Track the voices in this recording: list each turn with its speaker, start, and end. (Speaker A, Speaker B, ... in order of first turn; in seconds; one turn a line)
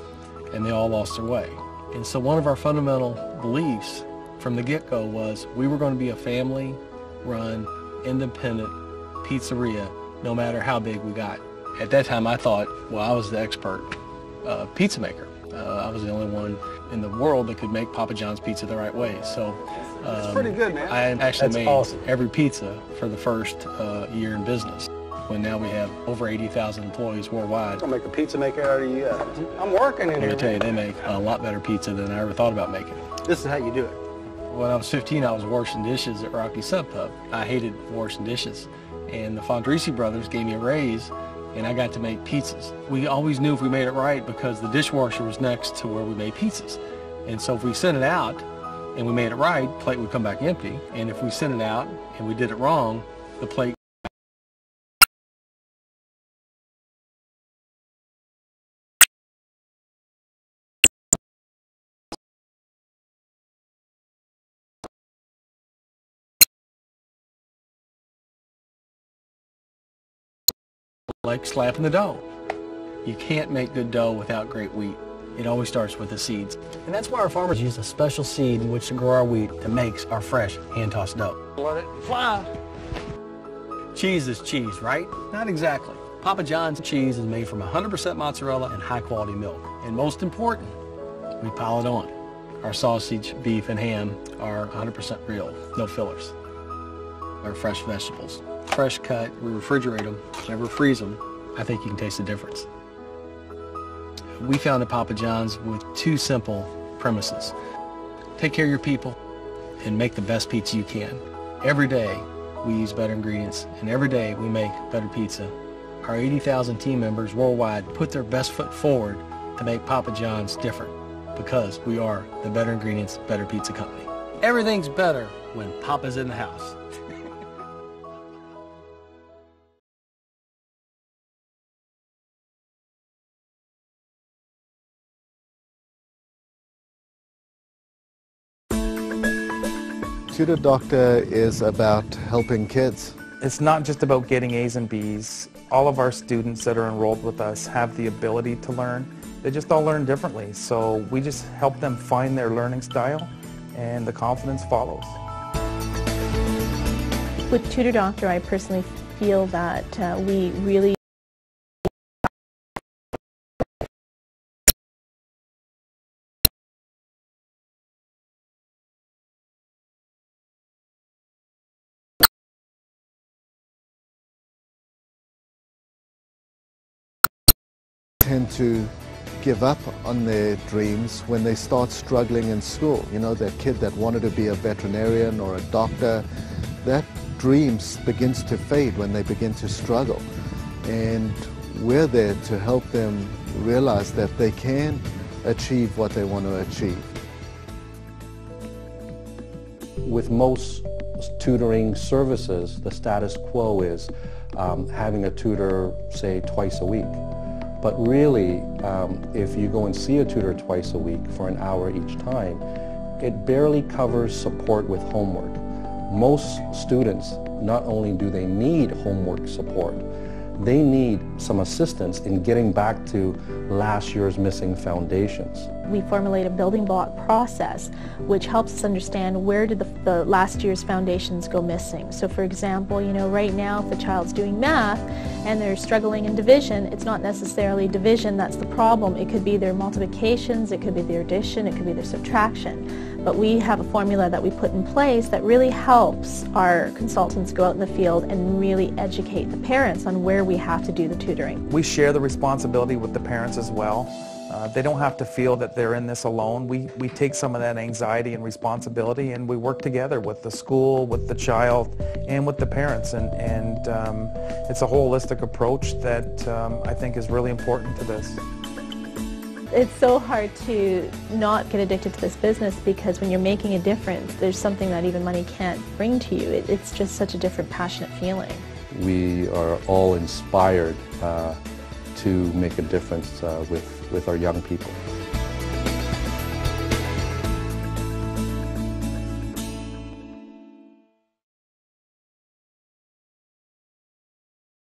Speaker A: 0.5-27.8
Speaker B: 20.1-21.9
Speaker B: 27.8-30.6
Speaker A: 30.2-33.0
Speaker B: 33.2-34.0
Speaker A: 34.5-53.8
Speaker A: 71.2-72.2
Speaker A: 73.0-81.4
Speaker B: 81.6-82.5
Speaker A: 83.9-90.8
Speaker A: 91.4-96.3
Speaker A: 97.4-102.7
Speaker A: 104.4-107.5
Speaker A: 108.4-109.2
Speaker A: 109.8-126.8
Speaker C: 140.3-143.1
Speaker D: 143.4-155.2
Speaker E: 157.5-161.0
Speaker C: 178.2-186.2
Speaker C: 186.8-190.3
Speaker C: 190.8-197.1
Speaker F: 200.0-207.2
Speaker F: 207.8-212.6
Speaker F: 213.2-220.1
Speaker F: 220.6-225.7
Speaker E: 225.9-251.6
Speaker D: 251.7-268.4
Speaker E: 269.7-278.6
Speaker F: 278.9-281.6
Speaker F: 282.1-285.0